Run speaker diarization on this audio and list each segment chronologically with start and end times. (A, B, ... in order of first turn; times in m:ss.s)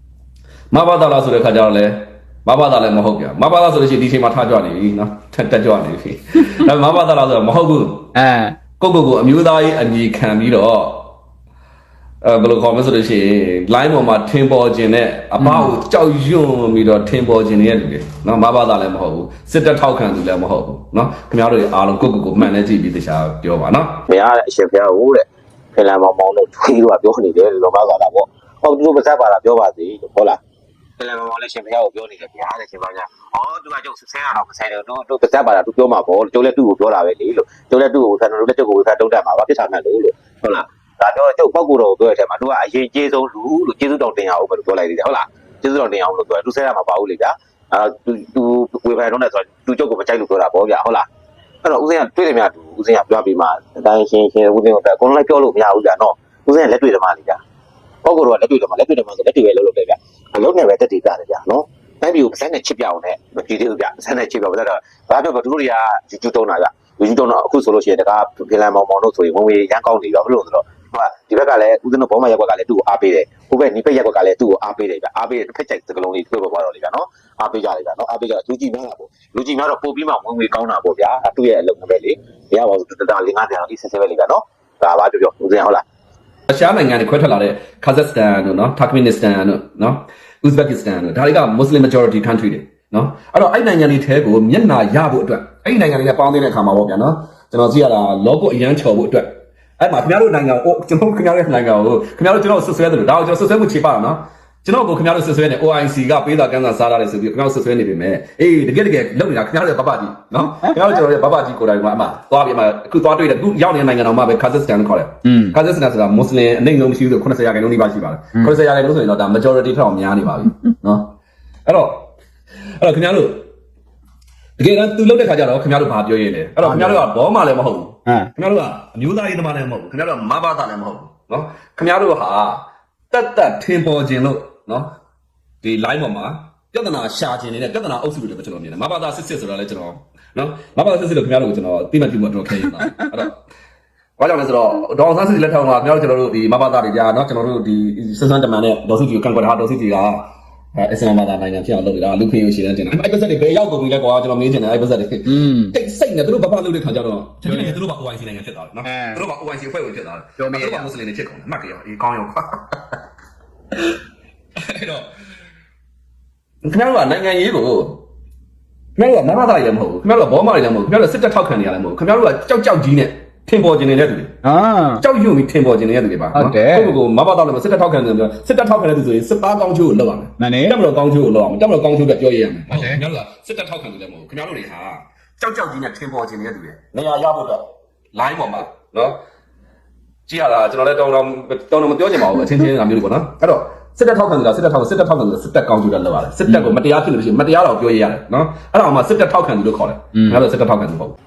0:00.7-0:08.1 A
0:08.1-0:08.6 B
0:08.8-0:11.1 A
0:12.2-0:24.0 A
0:15.4-0:15.7 B
0:24.1-0:30.4 C
0:31.0-0:51.1 C
0:51.6-0:57.4 C
0:58.0-1:25.8 C
1:26.5-2:01.1 A
1:55.2-1:55.5 B
2:01.6-2:02.1 A
2:02.8-2:03.5 A
2:04.6-2:14.9 A
2:06.6-2:07.0 B
2:08.0-2:08.3 B
2:15.6-2:23.4 A
2:24.2-2:43.0 A
2:35.2-2:35.7 B
2:37.4-2:37.7 B
2:38.8-2:39.2 B
2:40.4-2:40.9 B
2:44.6-2:45.1 A
2:46.6-2:48.0 A
2:49.0-2:54.4 A
2:54.4-2:55.0 B
2:54.9-3:09.2 A
2:56.3-2:56.9 B
3:00.4-3:00.8 B
3:02.7-3:03.0 B
3:10.3-3:21.2 A
3:20.1-3:20.4 B